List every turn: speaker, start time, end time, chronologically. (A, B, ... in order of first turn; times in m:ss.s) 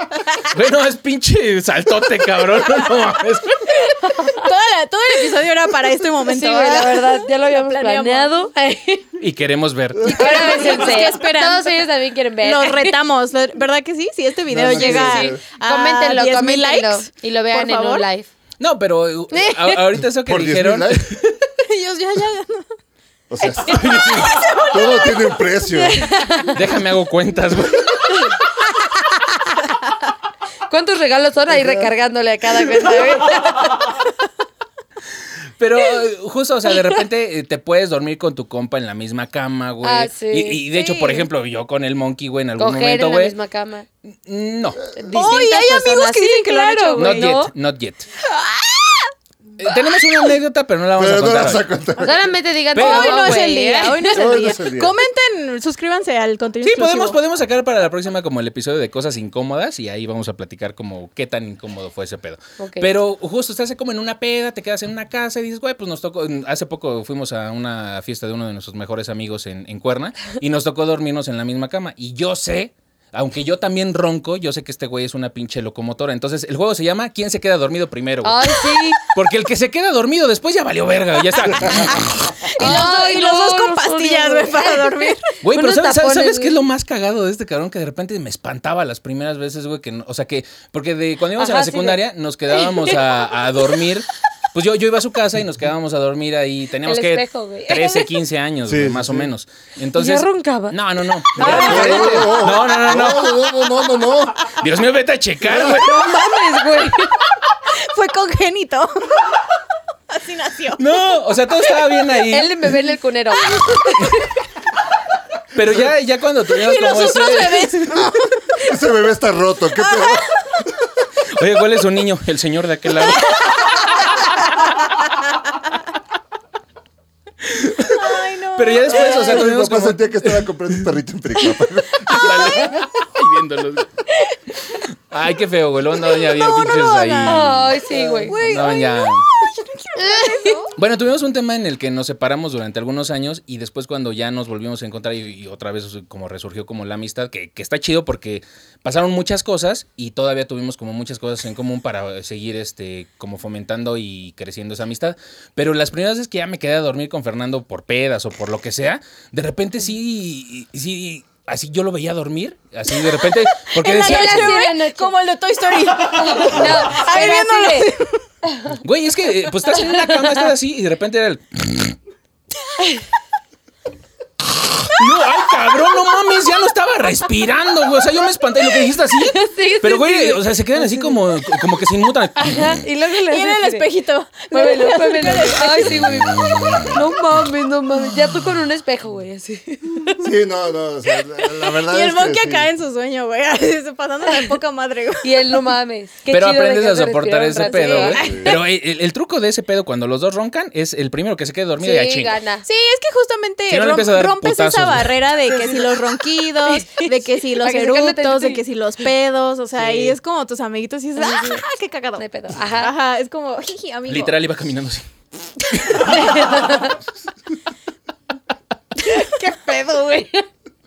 0:00.5-0:03.7 A
0:04.1-0:04.4 B
0:04.1-0:08.3 C
0:06.2-0:09.1 B
0:09.2-0:10.1 A
0:10.0-0:10.4 D
0:10.0-0:13.0 B
0:10.1-0:11.8 C
0:12.4-0:18.0 C
0:14.5-0:15.4 D
0:14.7-0:18.3 B
0:18.6-0:21.4 A
0:19.3-0:19.8 B
0:20.1-0:21.1 D
0:21.6-0:22.7 C
0:23.3-0:26.1 D
0:23.7-0:24.3 A
0:25.8-0:26.6 B
0:26.5-0:28.1 A
0:30.7-0:34.0 B
0:31.5-0:31.9 D
0:35.6-0:43.4 A
0:39.8-0:40.6 B
0:40.7-0:41.3 C
0:42.6-0:43.9 B
0:44.2-0:44.9 A
0:44.9-0:47.5 B
0:45.1-0:47.4 C
0:47.0-0:48.1 A
0:48.3-0:49.1 C
0:49.6-0:51.7 A
0:51.0-0:52.3 D
0:52.0-0:54.3 B
0:52.7-0:53.5 A
0:52.7-0:57.2 C
0:54.1-0:54.9 D
0:56.6-1:22.3 A
1:02.6-1:02.9 B
1:18.2-1:19.0 B
1:21.6-1:25.3 C
1:22.6-1:26.6 B
1:25.4-1:43.4 A
1:31.4-1:32.0 B
1:32.5-1:33.8 B
1:36.8-1:38.1 B
1:38.6-1:39.3 D
1:40.0-1:43.4 B
1:41.4-1:44.4 D
1:44.4-1:46.3 A
1:45.5-1:45.8 D
1:45.6-1:47.2 B
1:47.7-1:49.3 C
1:50.1-1:50.8 C
1:50.8-1:52.5 A
1:52.2-1:54.2 B
1:55.6-1:57.8 A
1:56.5-1:58.7 C
1:58.6-2:00.7 D
1:59.8-2:00.2 C
2:01.4-2:04.0 A
2:07.4-2:10.8 A
2:07.9-2:09.4 C
2:09.0-2:12.8 D
2:12.1-2:14.0 A
2:15.1-2:19.2 A
2:16.1-2:17.5 C
2:17.2-2:18.4 B
2:17.9-2:18.3 D
2:18.2-2:20.8 C
2:20.0-2:20.6 B
2:20.7-2:44.6 A
2:43.5-2:48.2 C
2:43.8-2:45.1 B
2:46.0-2:47.9 B
2:48.8-2:52.0 A
2:54.8-3:02.7 A
2:59.2-3:01.2 B
3:02.4-3:03.9 B
3:03.3-3:06.0 C
3:04.5-3:10.2 B
3:10.2-3:12.7 D
3:11.7-3:15.6 C
3:15.2-3:18.6 B
3:16.3-3:22.4 A
3:17.6-3:18.2 C
3:18.2-3:18.6 D
3:21.8-3:22.6 B
3:22.6-3:32.2 C
3:23.7-3:25.2 A
3:25.4-3:28.6 B
3:31.2-3:31.6 B
3:32.2-3:32.9 B
3:32.7-3:34.4 C
3:34.1-3:35.0 A
3:35.8-3:36.1 A
3:35.9-3:37.0 B
3:39.0-3:40.4 B